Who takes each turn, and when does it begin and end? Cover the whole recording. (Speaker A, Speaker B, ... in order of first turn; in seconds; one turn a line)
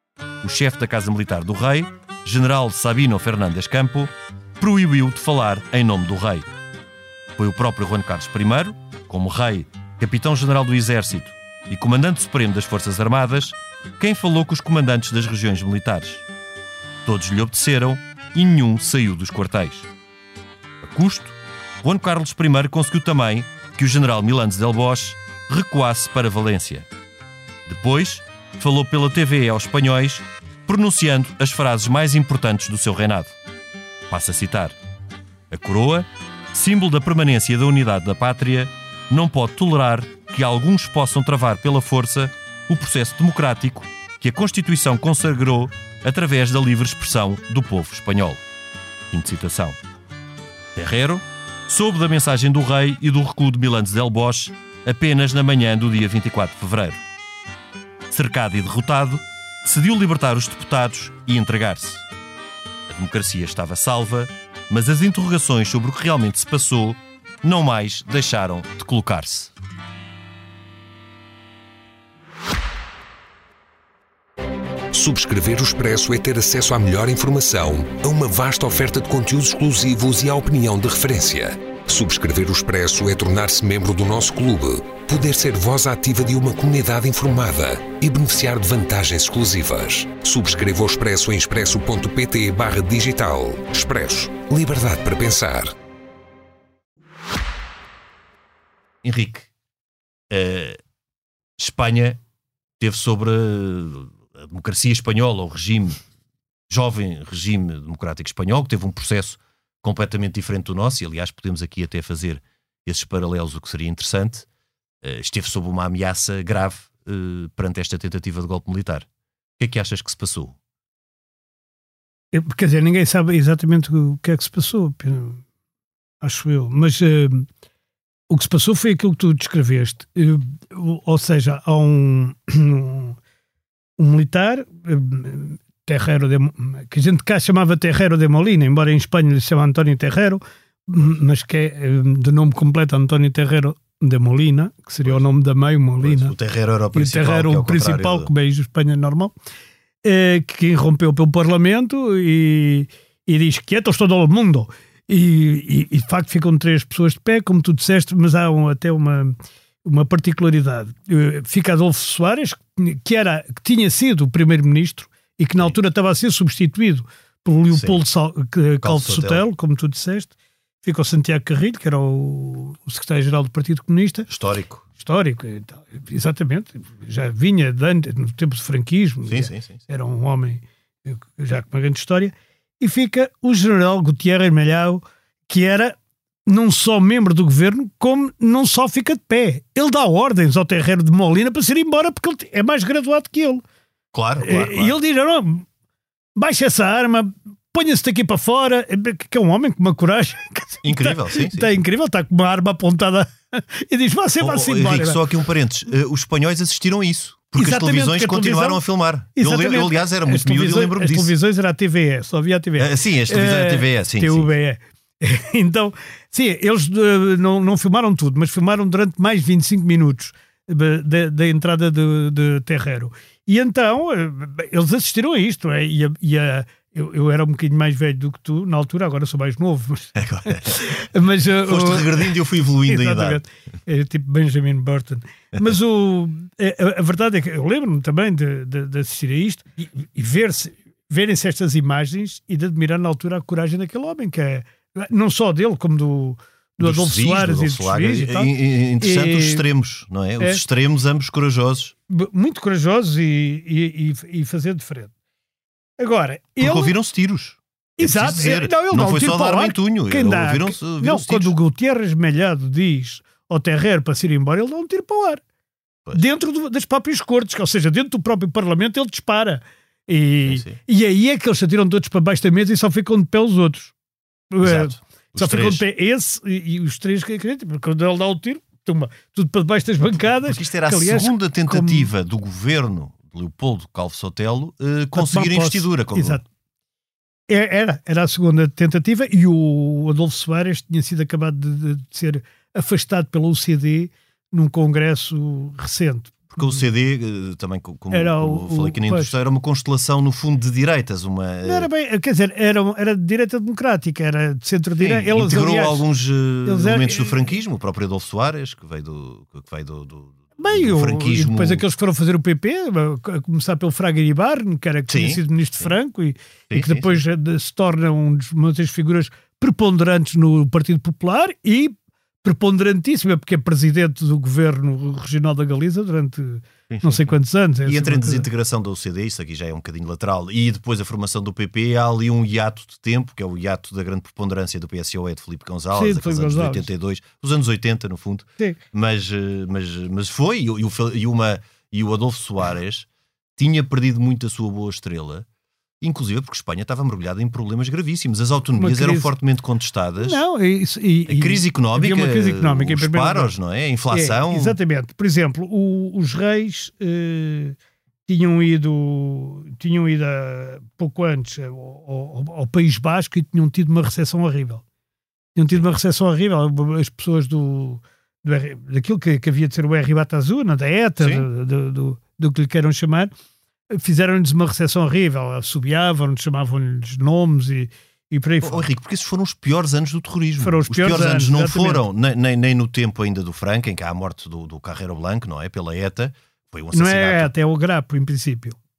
Speaker A: 0.4-6.5
Speaker A: 7.4-16.2
Speaker A: 17.1-19.9
Speaker A: 20.8-26.9
Speaker A: 27.7-33.4
Speaker A: 34.1-34.8
Speaker A: 35.5-48.4
Speaker A: 49.1-49.8
Speaker A: 50.8-57.0
Speaker A: 58.1-62.1
Speaker A: 62.9-69.5
Speaker B: 74.9-95.7
Speaker A: 99.0-99.5
Speaker A: 100.3-100.8
Speaker A: 101.6-102.2
Speaker A: 102.8-106.0
Speaker A: 106.7-114.5
Speaker A: 115.0-119.1
Speaker A: 119.6-120.6
Speaker C: 122.3-125.4
Speaker C: 126.2-127.5
Speaker C: 128.3-133.2
Speaker C: 134.0-146.3
Speaker A: 146.0-148.3
Speaker C: 146.9-149.3
Speaker C: 150.0-174.3
Speaker A: 167.7-168.0
Speaker A: 168.8-169.4
Speaker A: 174.3-174.8
Speaker C: 175.0-193.6
Speaker A: 179.3-179.8
Speaker A: 194.1-194.9
Speaker C: 194.4-195.7
Speaker C: 196.4-205.2
Speaker A: 200.8-201.8
Speaker A: 204.4-211.3
Speaker C: 207.6-208.8
Speaker C: 209.3-249.7
Speaker A: 212.8-214.5
Speaker A: 230.2-230.8
Speaker A: 231.6-233.4
Speaker A: 246.8-251.9
Speaker C: 252.1-255.1
Speaker C: 256.0-256.9
Speaker A: 256.6-261.5
Speaker C: 258.0-265.4
Speaker C: 266.1-273.9
Speaker A: 270.5-270.8
Speaker C: 274.5-282.1
Speaker A: 274.6-275.8
Speaker A: 280.4-286.4
Speaker C: 285.1-286.4
Speaker C: 287.5-296.6
Speaker A: 296.6-301.9
Speaker C: 298.1-299.3
Speaker C: 301.6-306.1
Speaker A: 305.0-311.8
Speaker C: 306.6-307.4
Speaker C: 310.6-328.5
Speaker A: 315.1-315.9
Speaker A: 316.7-317.2
Speaker A: 326.9-327.3
Speaker A: 327.9-345.5
Speaker C: 335.9-336.9
Speaker A: 346.0-350.4
Speaker C: 348.8-349.3
Speaker C: 350.2-353.5
Speaker A: 351.3-354.8
Speaker C: 354.1-364.8
Speaker C: 365.6-373.3
Speaker A: 371.2-371.5
Speaker C: 373.9-378.9
Speaker A: 378.6-387.5
Speaker C: 380.6-382.0
Speaker C: 386.9-388.8